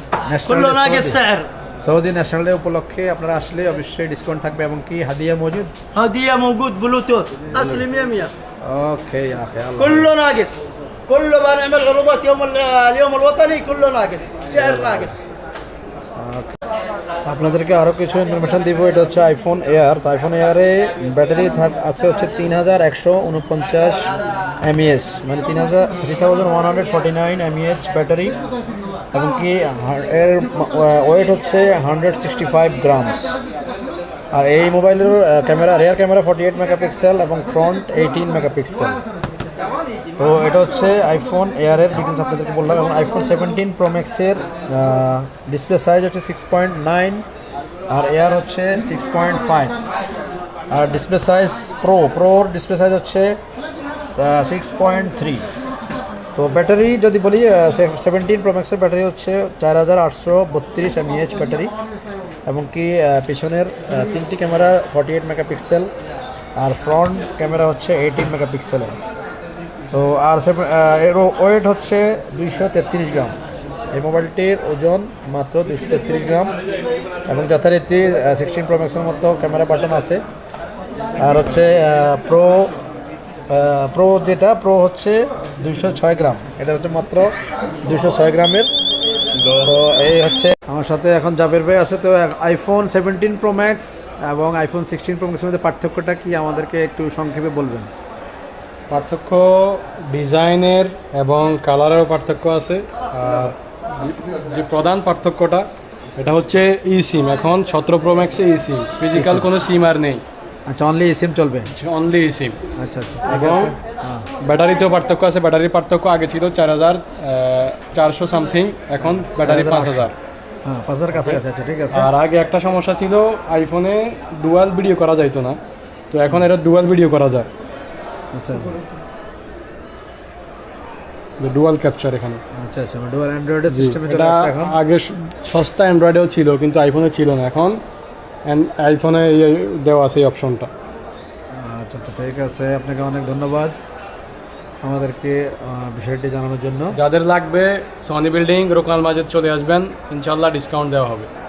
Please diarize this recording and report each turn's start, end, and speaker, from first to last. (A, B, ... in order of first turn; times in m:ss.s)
0:00.2-0:01.2 A
0:00.4-0:01.5 B
0:01.8-0:05.7 A
0:05.9-0:08.3 B
0:07.5-0:07.8 A
0:08.6-0:10.1 A
0:09.8-0:15.2 B
0:14.4-0:15.2 A
0:16.2-0:16.5 A
0:17.2-0:24.1 A
0:24.6-0:28.4 A
0:29.1-0:33.3 A
0:34.3-0:39.0 A
0:40.2-0:47.2 A
0:47.9-0:49.8 A
0:50.7-0:53.4 A
0:54.1-0:55.5 A
0:56.4-1:01.7 A
1:02.4-1:05.9 A
1:06.6-1:09.0 A
1:09.9-1:13.4 A
1:13.9-1:16.5 A
1:17.3-1:20.2 A
1:21.2-1:22.7 A
1:23.5-1:28.7 A
1:29.4-1:29.7 C
1:29.6-1:37.9 A
1:38.9-1:45.7 C
1:46.2-1:50.2 C
1:49.1-1:49.5 A
1:50.7-1:51.7 A
1:51.7-1:52.6 C
1:52.8-1:54.2 A
1:53.2-1:53.8 C
1:54.4-2:00.1 C
1:59.0-2:00.1 A
2:00.6-2:02.1 A
2:01.1-2:05.6 C
2:06.1-2:07.5 C
2:08.3-2:08.8 A
2:11.4-2:12.4 C
2:12.5-2:14.8 A
2:13.7-2:17.8 C
2:18.4-2:20.7 C
2:21.5-2:23.8 A
2:24.8-2:27.0 A
2:26.9-2:31.3 C